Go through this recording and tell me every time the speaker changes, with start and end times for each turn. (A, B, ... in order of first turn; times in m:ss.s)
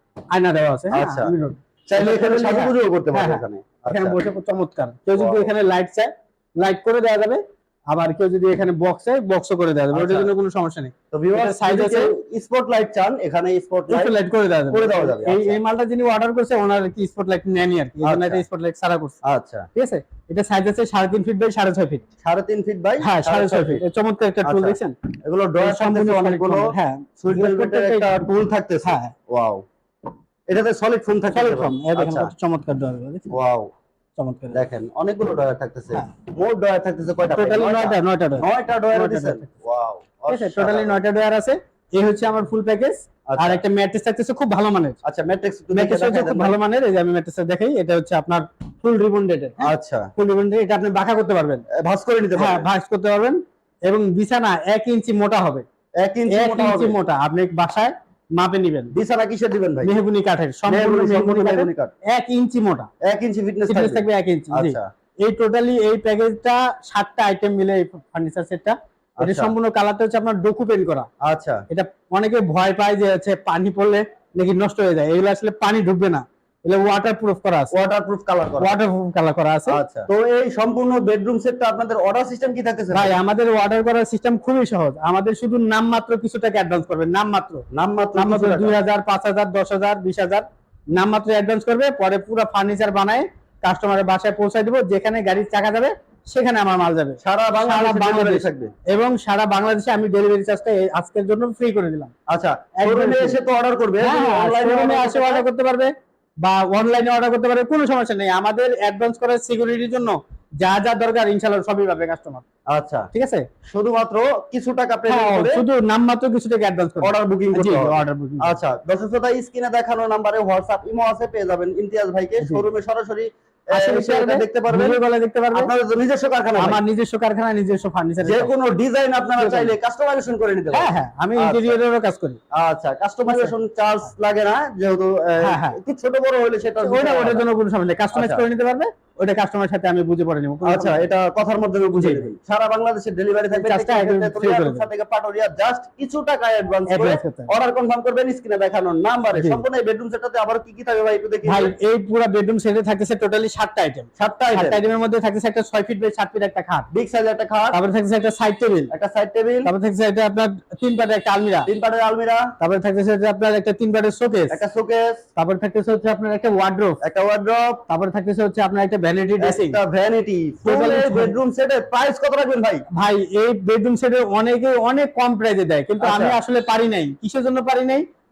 0:00.3-0:12.1 A
0:00.9-0:01.3 B
0:01.9-0:04.2 B
0:05.1-0:05.5 B
0:09.9-0:10.3 B
0:11.1-0:14.2 B
0:13.9-0:19.2 A
0:14.7-0:15.6 B
0:18.0-0:18.4 B
0:19.2-0:19.7 B
0:19.8-0:22.0 A
0:22.2-0:23.8 B
0:23.0-0:24.9 A
0:24.4-0:29.6 B
0:25.6-0:28.1 A
0:28.8-0:29.1 A
0:30.5-0:32.3 B
0:31.3-0:33.3 A
0:33.3-0:33.7 B
0:34.2-0:34.6 A
0:34.5-0:41.0 B
0:37.4-0:39.4 A
0:40.3-0:45.0 A
0:43.3-0:43.6 B
0:45.0-0:46.6 B
0:45.7-0:51.6 A
0:49.6-0:50.1 B
0:51.7-0:52.7 B
0:52.4-0:55.6 A
0:56.0-0:57.0 B
0:56.3-0:58.9 A
0:58.9-0:59.9 B
0:59.8-1:02.9 A
1:00.7-1:01.9 B
1:03.0-1:04.9 B
1:03.7-1:11.1 A
1:09.2-1:09.5 B
1:11.2-1:11.6 B
1:11.7-1:17.7 A
1:17.7-1:18.8 B
1:18.6-1:19.8 A
1:19.7-1:23.2 B
1:22.9-1:27.6 A
1:27.7-1:28.8 B
1:28.1-1:42.1 A
1:37.2-1:38.7 B
1:42.3-1:45.4 B
1:42.8-1:43.4 A
1:44.0-1:52.4 A
1:52.7-1:53.1 B
1:53.1-1:53.5 A
1:53.6-1:55.6 B
1:55.1-1:58.5 A
1:57.0-2:05.0 B
2:03.7-2:05.7 A
2:05.5-2:06.8 B
2:06.6-2:08.5 A
2:08.2-2:11.8 B
2:09.4-2:09.7 A
2:10.7-2:12.4 A
2:12.5-2:17.4 B
2:15.4-2:15.8 A
2:16.8-2:21.1 A
2:18.1-2:18.4 B
2:20.6-2:31.7 B
2:21.9-2:22.3 A
2:23.5-2:24.9 A
2:26.9-2:27.5 A
2:29.4-2:29.6 A
2:31.4-2:36.9 A
2:34.2-2:34.8 B
2:36.9-2:37.8 B
2:37.7-2:38.9 A
2:38.9-2:39.7 B
2:39.6-2:41.7 A
2:41.7-2:42.4 B
2:42.6-2:44.6 A
2:44.5-2:45.2 B
2:45.4-2:47.0 A
2:47.0-2:47.8 B
2:47.9-2:49.8 A
2:49.4-2:52.8 B
2:50.6-2:51.4 A
2:52.9-2:58.0 A
2:56.0-2:56.4 B